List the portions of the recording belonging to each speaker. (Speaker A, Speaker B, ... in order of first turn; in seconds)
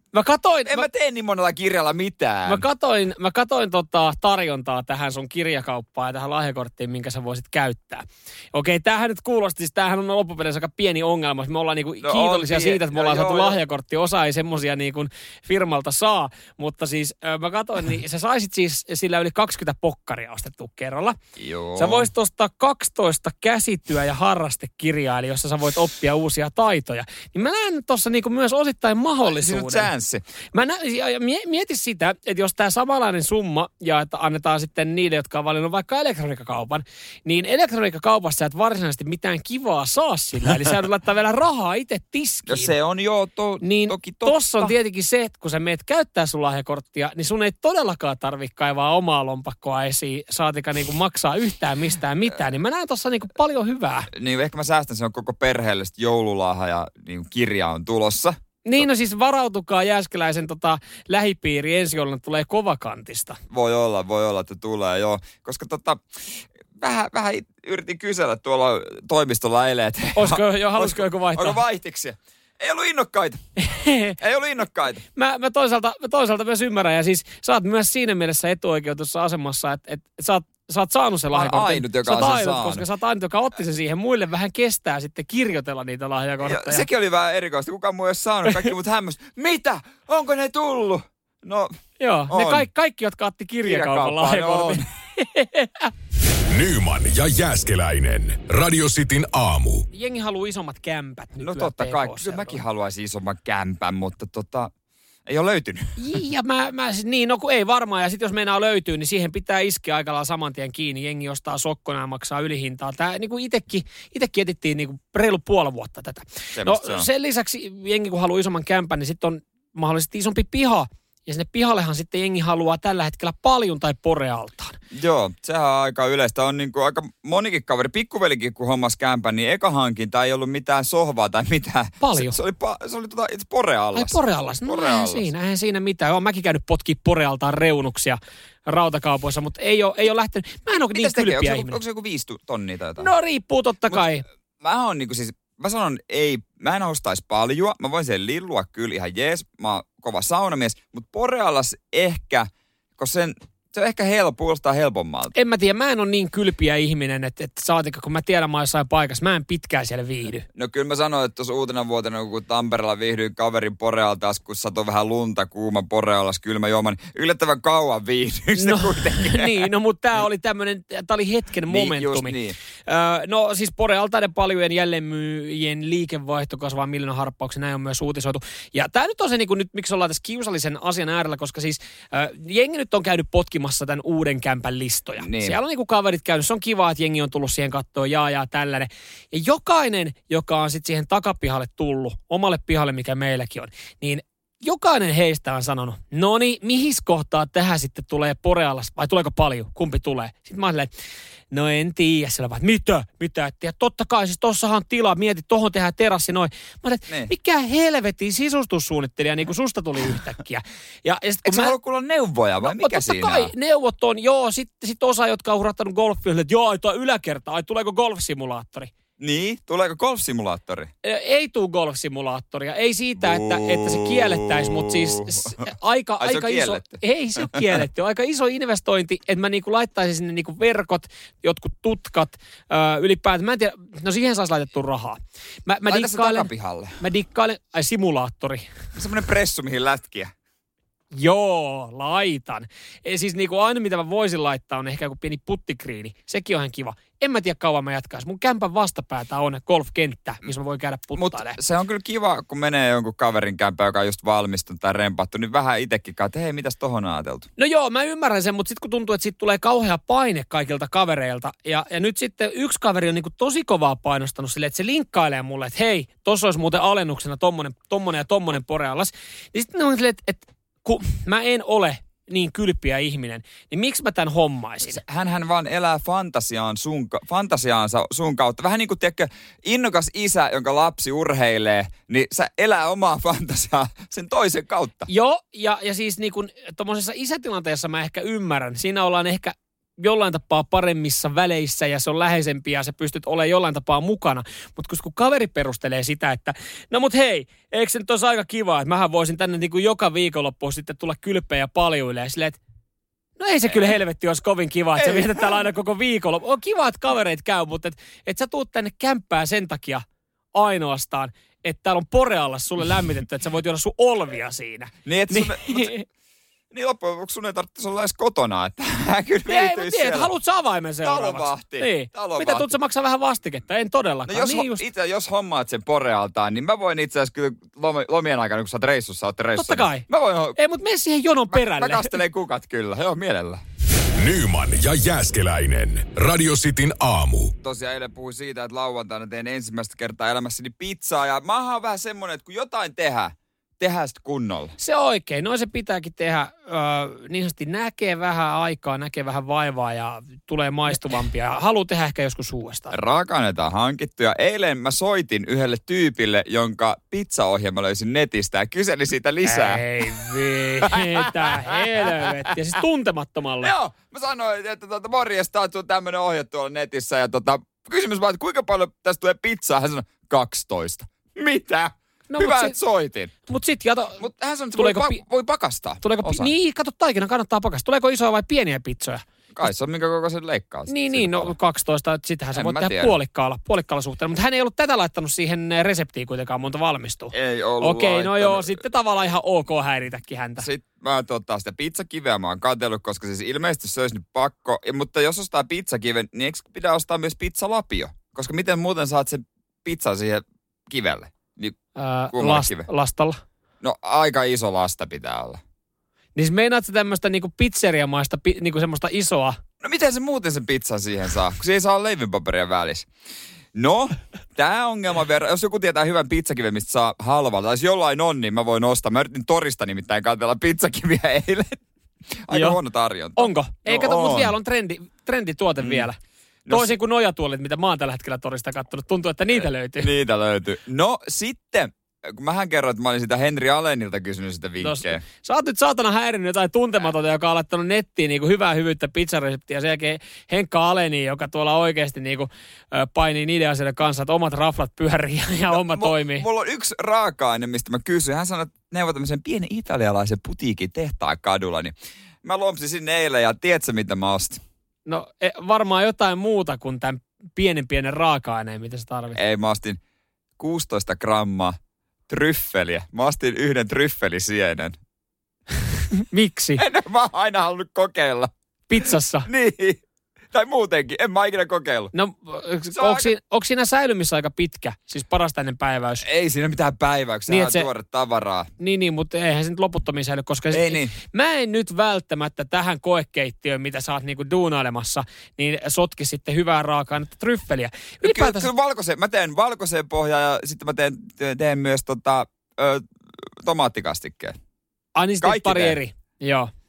Speaker A: 0.1-0.9, 2.5-21.2, 21.8-29.9, 30.5-42.7, 43.6-54.1, 58.6-63.4, 70.2-71.6, 73.6-74.2, 75.1-86.8, 92.0-95.9, 99.9-102.6, 106.0-124.8, 132.0-132.4, 133.9-141.8, 143.0-144.2, 155.3-160.4, 168.6-200.9, 201.5-211.7, 212.6-218.9, 221.0-238.7, 241.1-251.6, 257.6-275.0, 285.1-302.6, 303.4-316.0, 319.5-324.8, 329.5-332.1, 344.8-352.9, 359.4-363.7, 372.3-372.8, 373.5-374.2, 374.8-375.2, 376.0-379.2, 380.9-390.7, 401.9-403.4, 406.4-409.6, 422.5-422.8, 423.4-430.1, 434.8-446.4, 455.1-459.4, 466.1-466.8, 468.9-469.5, 472.1-476.2, 477.5-477.9, 478.8-488.7, 495.1-496.7
Speaker B: 0.7-2.6, 12.0-13.6, 21.4-22.1, 29.2-30.2, 42.5-44.7, 54.1-58.4, 63.5-73.4, 74.2-75.0, 81.3-82.8, 86.4-91.7, 92.3-92.7, 93.6-94.8, 101.4-104.7, 105.2-106.0, 116.5-117.1, 124.9-135.3, 140.9-143.1, 144.6-155.3, 160.5-169.7, 171.7-172.6, 185.2-185.6, 211.4-213.5, 219.2-220.9, 223.2-225.6, 226.2-227.7, 235.9-237.0, 238.9-240.3, 251.2-257.5, 274.8-285.1, 305.0-305.5, 315.0-315.9, 316.7-320.3, 321.0-322.7, 324.3-330.6, 331.5-333.6, 337.6-344.8, 352.9-360.3, 360.8-362.3, 363.6-373.3, 374.2-376.5, 379.5-381.5, 382.5-383.1, 387.3-388.8, 390.6-401.8, 402.3-402.9, 403.8-405.6, 409.8-413.1, 413.7-421.8, 422.3-424.5, 425.8-426.1, 426.6-426.9, 430.0-435.2, 445.7-454.6, 459.3-460.0, 460.6-461.8, 462.3-465.0, 466.8-468.5, 469.4-472.1, 472.9-473.3, 476.2-478.7, 480.7-481.1, 488.2-494.6, 495.4-496.0
Speaker C: 96.3-99.9, 334.1-337.5